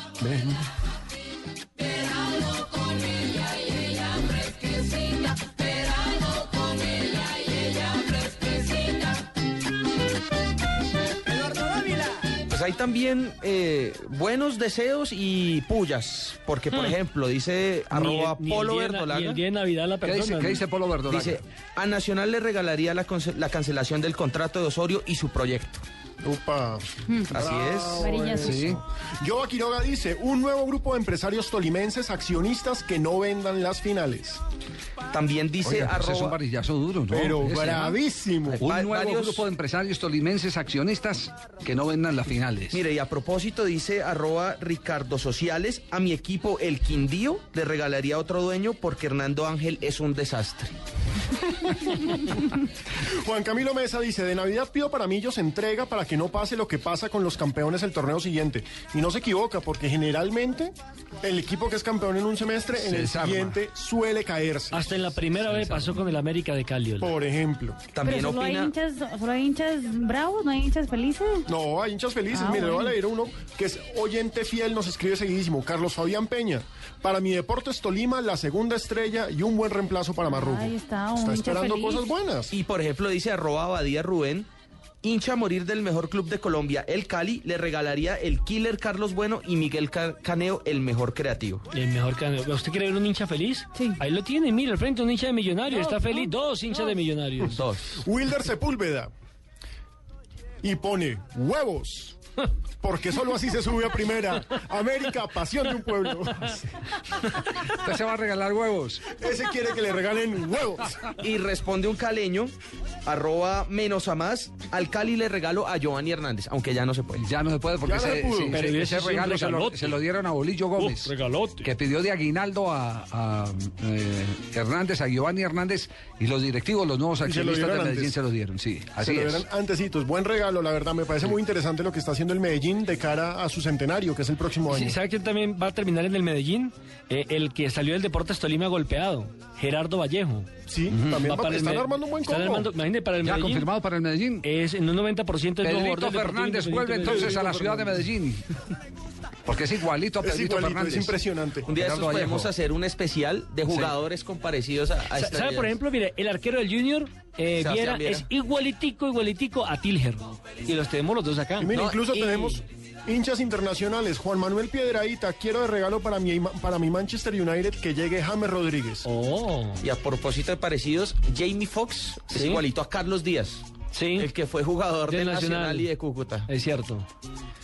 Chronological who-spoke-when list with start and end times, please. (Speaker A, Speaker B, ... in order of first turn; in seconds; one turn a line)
Speaker A: 12.5-19.4
Speaker B: 17.9-20.6
Speaker C: 20.0-21.4
Speaker A: 21.1-25.8
Speaker D: 26.2-34.4
Speaker A: 27.3-28.1
Speaker E: 28.0-28.6
Speaker C: 28.4-28.8
Speaker A: 35.1-36.4
Speaker C: 35.6-38.0
Speaker D: 37.1-38.7
Speaker C: 38.5-42.8
Speaker A: 38.6-39.5
Speaker A: 42.7-50.8
Speaker D: 53.1-65.0
Speaker C: 62.8-63.5
Speaker B: 64.7-67.1
Speaker C: 65.3-66.0
Speaker D: 67.0-67.8
Speaker A: 67.9-68.7
Speaker E: 68.0-71.5
Speaker D: 71.5-82.5
Speaker E: 72.3-73.0
Speaker E: 80.3-82.1
Speaker A: 82.5-84.5
Speaker A: 85.0-91.6
Speaker B: 91.7-97.6
Speaker E: 95.8-96.3
Speaker A: 97.4-97.9
Speaker D: 98.0-99.1
Speaker D: 100.6-102.2
Speaker D: 102.8-106.7
Speaker C: 107.5-109.1
Speaker D: 109.1-111.0
Speaker A: 111.2-117.2
Speaker C: 117.2-121.1
Speaker D: 117.8-118.6
Speaker B: 118.5-120.0
Speaker B: 120.8-121.7
Speaker C: 121.6-129.4
Speaker D: 127.2-128.1
Speaker D: 129.0-135.0
Speaker B: 134.7-140.5
Speaker D: 140.7-142.7
Speaker C: 140.9-141.2
Speaker B: 141.2-143.7
Speaker C: 143.2-144.4
Speaker B: 144.4-148.1
Speaker C: 145.6-148.4
Speaker D: 147.1-147.3
Speaker C: 149.4-151.1
Speaker D: 150.2-151.7
Speaker A: 151.6-155.8
Speaker C: 151.7-152.5
Speaker B: 155.1-161.8
Speaker A: 157.6-158.3
Speaker D: 161.6-169.1
Speaker A: 161.7-162.5
Speaker B: 169.0-169.8
Speaker A: 169.8-176.5
Speaker B: 172.3-172.6
Speaker B: 173.9-174.3
Speaker B: 175.1-175.9
Speaker B: 176.5-177.1